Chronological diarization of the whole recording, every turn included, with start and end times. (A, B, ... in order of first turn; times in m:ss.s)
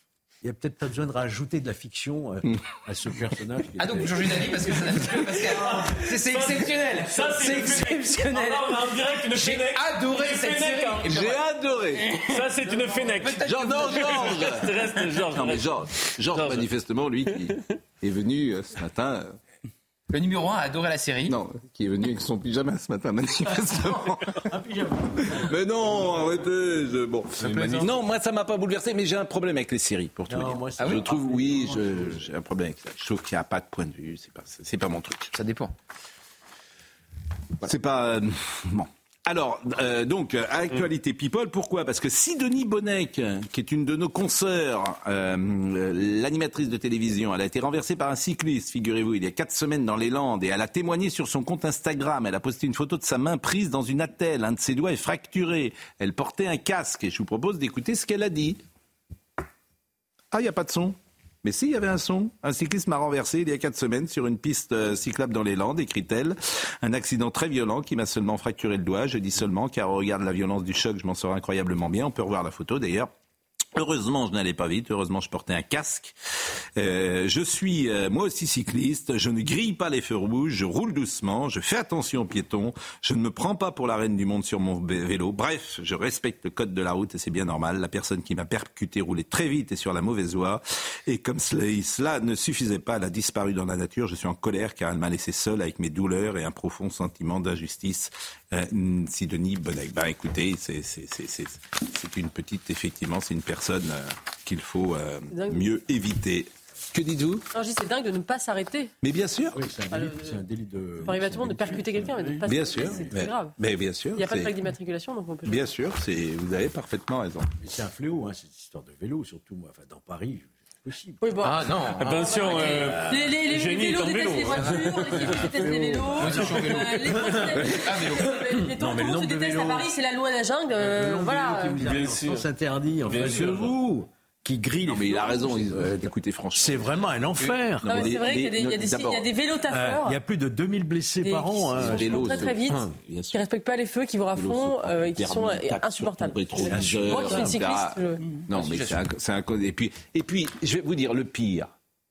0:00.4-0:05.0 A
0:03.8-0:11.4 B
0:05.3-0:11.3 C
0:11.0-0:12.1 D
0:12.2-0:16.7 C
0:13.2-0:14.1 B
0:13.4-0:14.7 D
0:15.3-0:19.4 D
0:17.3-0:17.5 C
0:20.1-0:21.4 B
0:21.3-0:24.3 D
0:24.5-0:25.3 A
0:25.3-0:35.3 D
0:27.4-0:27.9 A
0:30.3-0:32.2 A
0:35.3-0:35.7 B
0:37.6-0:58.6 D
1:00.3-1:13.1 D
1:13.8-1:16.1 D
1:16.8-1:47.5 D
1:45.3-1:45.6 E
1:47.5-1:48.9 E
1:49.0-1:49.6 D
1:49.5-1:53.2 A
1:49.9-1:50.4 E
1:51.0-1:53.6 E
1:52.4-1:54.5 D
1:54.2-1:55.7 E
1:55.5-1:57.5 D
1:57.6-2:01.4 A
2:01.2-2:12.0 E
2:01.4-2:02.8 B
2:02.0-2:05.4 C
2:02.8-2:03.2 A
2:04.5-2:07.9 A
2:06.2-2:06.9 B
2:07.8-2:08.2 B
2:08.8-2:09.9 A
2:10.8-2:18.2 A
2:11.8-2:12.5 C
2:13.1-2:13.7 C
2:14.9-2:19.3 D
2:17.8-2:20.2 E
2:19.7-2:23.0 A
2:21.2-2:28.2 E
2:21.8-2:23.4 D
2:24.3-2:31.7 D
2:26.6-2:27.6 A
2:28.5-2:29.0 B